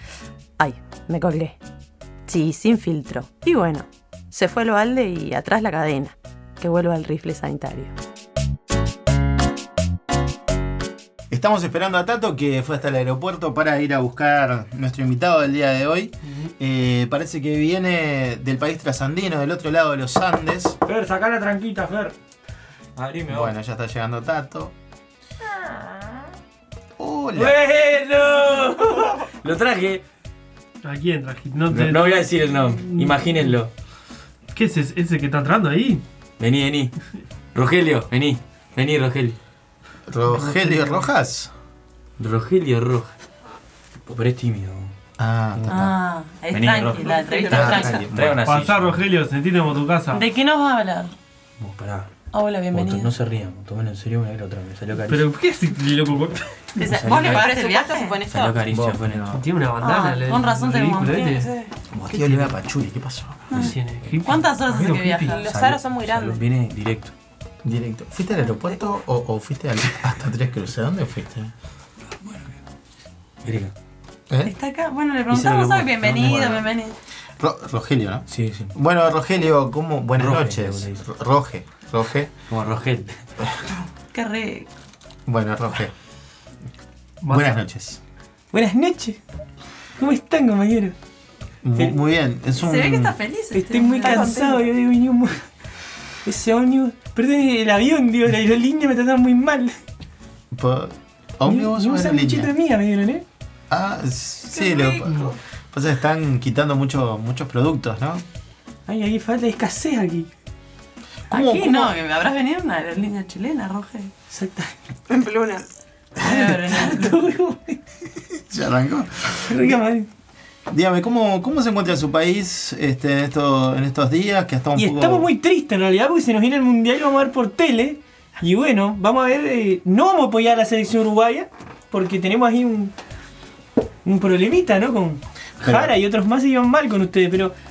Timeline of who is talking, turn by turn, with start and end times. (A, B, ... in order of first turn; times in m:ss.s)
0:00.6-0:01.6 A
0:02.3-0:07.9 A
0:11.3-0:20.8 B
0:20.9-0:22.1 C
0:23.0-0:23.5 C
0:23.3-0:24.7 B
0:27.0-0:27.6 B
0:27.4-0:30.0 C
0:30.8-0:33.4 D
0:31.7-0:33.7 C
0:34.5-0:36.0 D
0:36.4-0:36.9 C
0:37.5-0:39.4 C
0:40.1-0:41.5 B
0:40.3-0:41.0 D
0:42.2-0:43.2 C
0:44.1-0:44.9 C
0:45.2-0:46.0 B
0:45.7-0:48.1 A
0:46.5-0:49.0 C
0:47.0-0:47.9 E
0:47.5-0:48.4 B
0:48.4-0:50.2 D
0:50.1-0:51.1 A
0:51.6-0:52.1 C
0:52.3-0:53.1 A
0:52.7-0:55.3 C
0:55.1-0:56.5 D
0:56.8-0:58.2 A
0:56.8-0:57.5 C
0:57.0-0:58.6 E
0:58.3-0:59.4 C
0:58.7-0:59.4 B
0:59.3-1:01.5 D
0:59.8-1:01.3 A
1:01.1-1:01.7 E
1:02.0-1:03.8 B
1:02.1-1:02.5 C
1:03.5-1:05.5 A
1:03.5-1:05.2 D
1:04.1-1:07.1 C
1:05.2-1:06.4 E
1:07.6-1:11.5 B
1:13.4-1:13.7 C
1:14.4-1:17.0 A
1:15.3-1:16.4 C
1:16.1-1:16.7 B
1:17.4-1:22.3 B
1:18.3-1:18.7 C
1:20.2-1:21.0 C
1:22.5-1:23.2 C
1:24.1-1:24.7 A
1:25.3-1:25.9 B
1:27.2-1:27.6 D
1:27.3-1:28.0 B
1:28.5-1:29.2 C
1:30.0-1:31.0 C
1:31.6-1:33.2 B
1:32.6-1:34.3 A
1:33.5-1:35.4 C
1:33.8-1:34.7 E
1:36.2-1:39.8 C
1:40.5-1:42.5 B
1:41.4-1:43.2 C
1:43.7-1:48.2 B
1:44.5-1:45.0 A
1:45.1-1:45.3 D
1:48.9-1:50.3 C
1:51.3-1:51.9 B
1:51.3-1:54.1 A
1:54.3-1:54.8 C
1:55.1-1:55.6 E
1:56.2-1:57.2 A
1:56.2-1:57.8 C
1:58.4-1:59.7 B
1:59.4-2:00.1 C
2:00.7-2:05.3 B
2:04.8-2:12.9 C
2:14.0-2:17.6 C
2:15.6-2:16.0 B